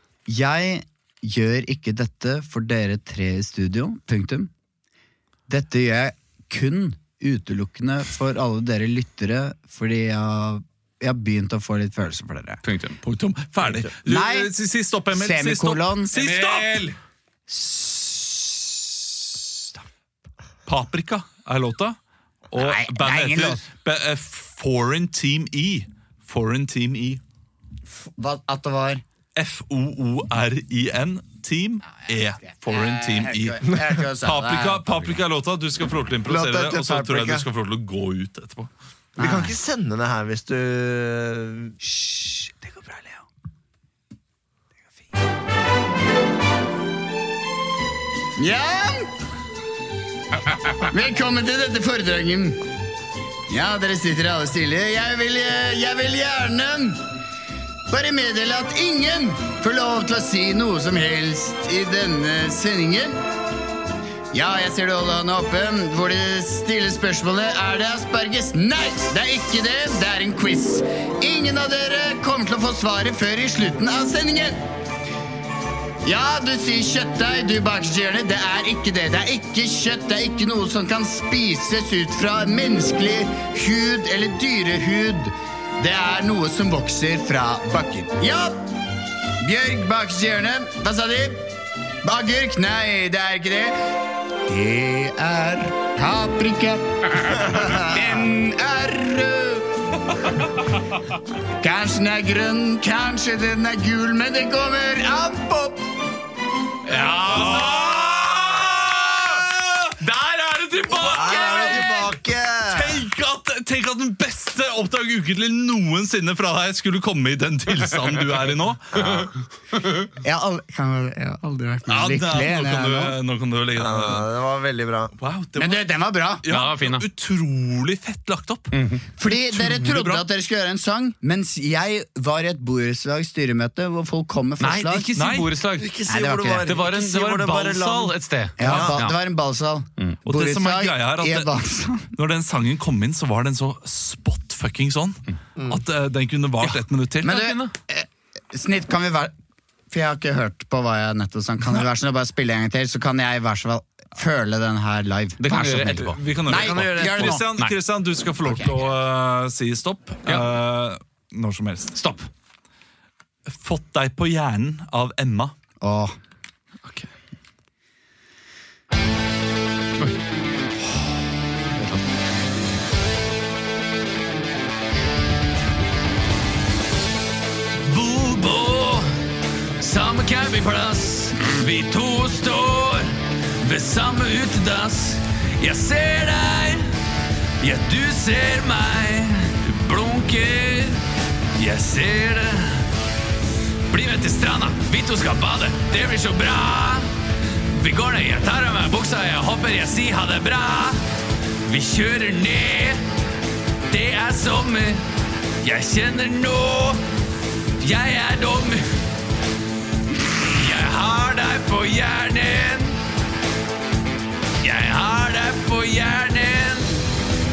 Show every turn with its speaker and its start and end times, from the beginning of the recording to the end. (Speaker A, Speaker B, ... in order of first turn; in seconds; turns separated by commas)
Speaker A: 0.3-4.5, Speaker A: 5.5-12.6, Speaker B: 12.6-13.0, Speaker C: 13.0-16.9, Speaker A: 14.0-14.5, Speaker A: 15.1-16.4, Speaker B: 16.2-16.9, Speaker A: 17.5-19.6, Speaker C: 20.6-22.0, Speaker C: 22.5-27.2, Speaker A: 22.6-23.6, Speaker A: 28.1-29.0, Speaker C: 29.4-38.7, Speaker A: 32.0-35.1, Speaker D: 36.3-37.4, Speaker A: 39.2-39.5, Speaker D: 39.2-41.7, Speaker A: 41.8-43.2, Speaker A: 48.4-49.1, Speaker A: 50.7-52.6, Speaker A: 53.5-57.0, Speaker A: 57.9-63.2, Speaker A: 64.3-74.6, Speaker A: 76.0-88.6, Speaker A: 89.4-91.5, Speaker A: 92.0-93.8, Speaker A: 94.5-99.7, Speaker D: 97.5-98.0, Speaker A: 101.6-105.8, Speaker B: 106.9-108.0, Speaker C: 107.0-109.9, Speaker B: 110.0-111.9, Speaker C: 111.0-111.8, Speaker D: 111.0-113.0, Speaker C: 112.7-119.3, Speaker A: 120.2-123.2, Speaker C: 121.9-124.3, Speaker D: 123.8-125.1, Speaker C: 125.2-125.9, Speaker A: 125.5-126.4, Speaker C: 126.4-130.2, Speaker B: 126.5-127.0, Speaker B: 128.7-129.0, Speaker A: 129.2-135.1, Speaker B: 134.6-135.9, Speaker C: 135.2-135.5, Speaker D: 135.8-139.0, Speaker A: 136.1-136.7, Speaker B: 136.6-139.2, Speaker A: 138.6-142.1, Speaker C: 140.2-141.5, Speaker C: 142.1-147.4, Speaker D: 145.6-145.8, Speaker B: 146.6-147.7, Speaker A: 147.2-149.3, Speaker A: 149.9-157.5, Speaker B: 155.4-157.7, Speaker C: 155.9-161.9, Speaker A: 158.4-158.7, Speaker B: 161.9-162.3, Speaker C: 163.5-165.5, Speaker A: 165.8-166.2, Speaker B: 166.8-167.1, Speaker B: 171.8-172.0, Speaker B: 177.8-179.1, Speaker B: 179.8-186.9, Speaker B: 187.6-191.0, Speaker B: 191.6-192.9, Speaker B: 193.9-197.1, Speaker B: 197.7-201.0, Speaker B: 201.6-203.0, Speaker B: 203.9-205.0, Speaker B: 205.6-207.0, Speaker B: 207.8-208.9, Speaker B: 210.3-213.0, Speaker B: 214.6-217.0